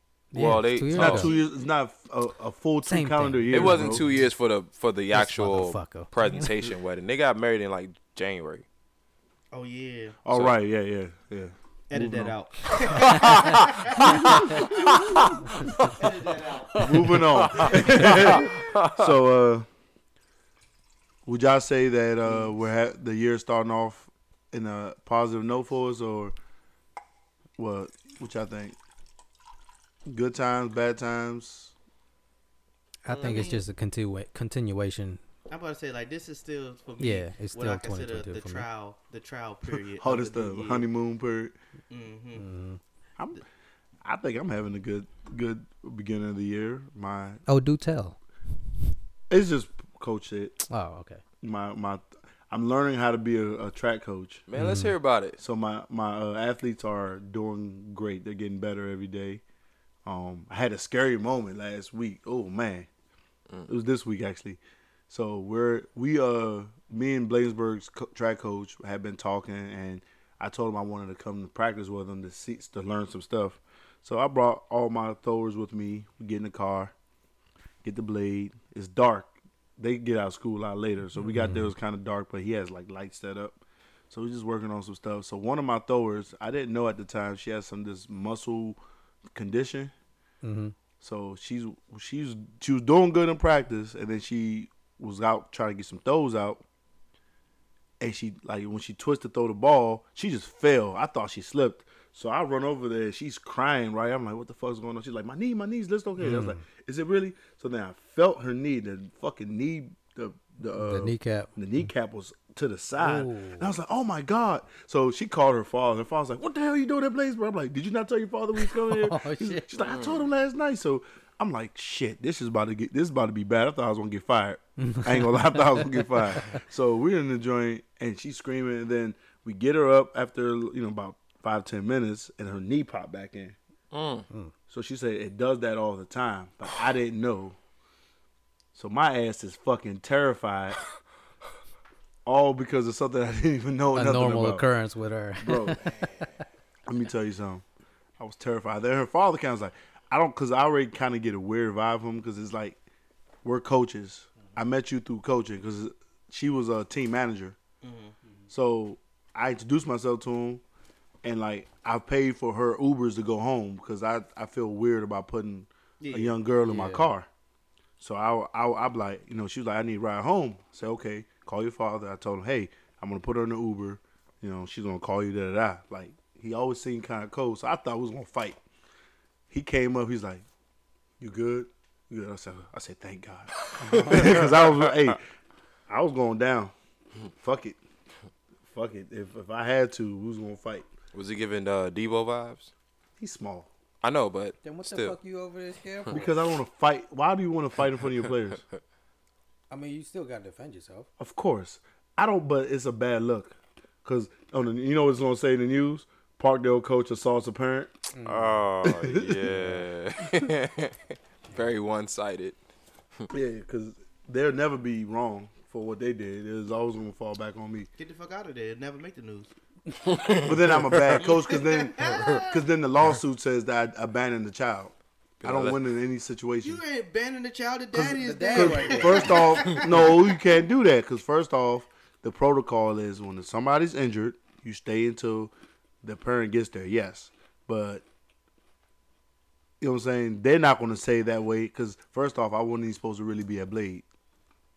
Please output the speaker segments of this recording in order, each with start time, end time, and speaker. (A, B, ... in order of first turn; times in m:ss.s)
0:00.3-0:01.3 A
0:00.3-0:01.4 B
0:00.9-0:04.0 C
0:02.8-0:04.2 A
0:03.5-0:08.6 B
0:05.1-0:06.5 A
0:09.5-0:10.2 D
0:10.2-0:12.4 C
0:11.9-0:18.1 D
0:13.0-0:16.0 B
0:13.1-0:14.6 C
0:16.7-0:19.1 B
0:16.8-0:19.7 C
0:21.3-0:26.4 C
0:27.6-0:28.8 C
0:30.1-0:31.7 C
0:33.0-0:35.2 A
0:33.1-0:33.6 D
0:35.5-0:40.9 D
0:37.0-0:38.7 A
0:39.7-0:41.6 C
0:41.9-0:42.5 D
0:42.4-0:42.8 A
0:43.2-0:43.4 C
0:44.0-0:47.4 C
0:47.5-0:48.2 A
0:49.3-0:50.6 C
0:50.7-0:51.2 A
0:51.4-0:54.4 C
0:54.5-0:55.4 B
0:54.6-0:54.9 A
0:55.4-0:59.4 C
1:00.0-1:02.9 C
1:03.7-1:16.9 C
1:17.8-1:28.8 C
1:21.2-1:21.7 A
1:29.3-1:29.9 C
1:30.4-1:30.8 A
1:31.0-1:36.6 C
1:38.0-2:13.6 C
1:46.2-1:46.6 A
1:50.8-1:51.9 A
1:53.0-1:53.7 A
1:58.6-1:59.7 A
1:59.9-2:00.2 B
2:04.8-2:06.6 A
2:13.9-2:14.3 B
2:14.7-2:17.6 C
2:18.7-2:20.8 C
2:22.3-2:24.7 C
2:23.9-2:25.9 A
2:25.4-2:25.9 C
2:26.9-2:27.6 C
2:28.2-2:32.8 C
2:33.4-2:37.6 C
2:37.8-2:38.2 D
2:38.5-2:40.6 C
2:41.2-2:47.3 C
2:46.0-2:46.4 D
2:46.6-2:47.1 A
2:48.0-2:58.6 C
2:59.5-3:00.4 C
3:01.2-3:05.2 C
3:03.8-3:04.9 B
3:05.9-3:06.7 C
3:07.4-3:07.8 C
3:08.7-3:10.9 C
3:11.1-3:12.7 B
3:13.2-3:13.7 C
3:14.0-3:15.2 B
3:14.6-3:16.3 A
3:16.1-3:18.6 C
3:19.7-3:21.1 A
3:21.2-3:28.0 C
3:28.1-3:28.6 A
3:28.2-3:32.6 B
3:28.8-3:29.7 C
3:29.5-3:29.8 A
3:33.3-3:37.9 C
3:38.0-3:39.5 D
3:40.0-3:41.2 B
3:40.3-3:46.8 C
3:41.2-3:42.6 D
3:45.4-3:45.8 B
3:46.6-3:50.3 D
3:47.9-3:55.5 C
3:48.2-3:49.7 A
3:56.0-3:58.0 C
3:59.8-4:04.0 C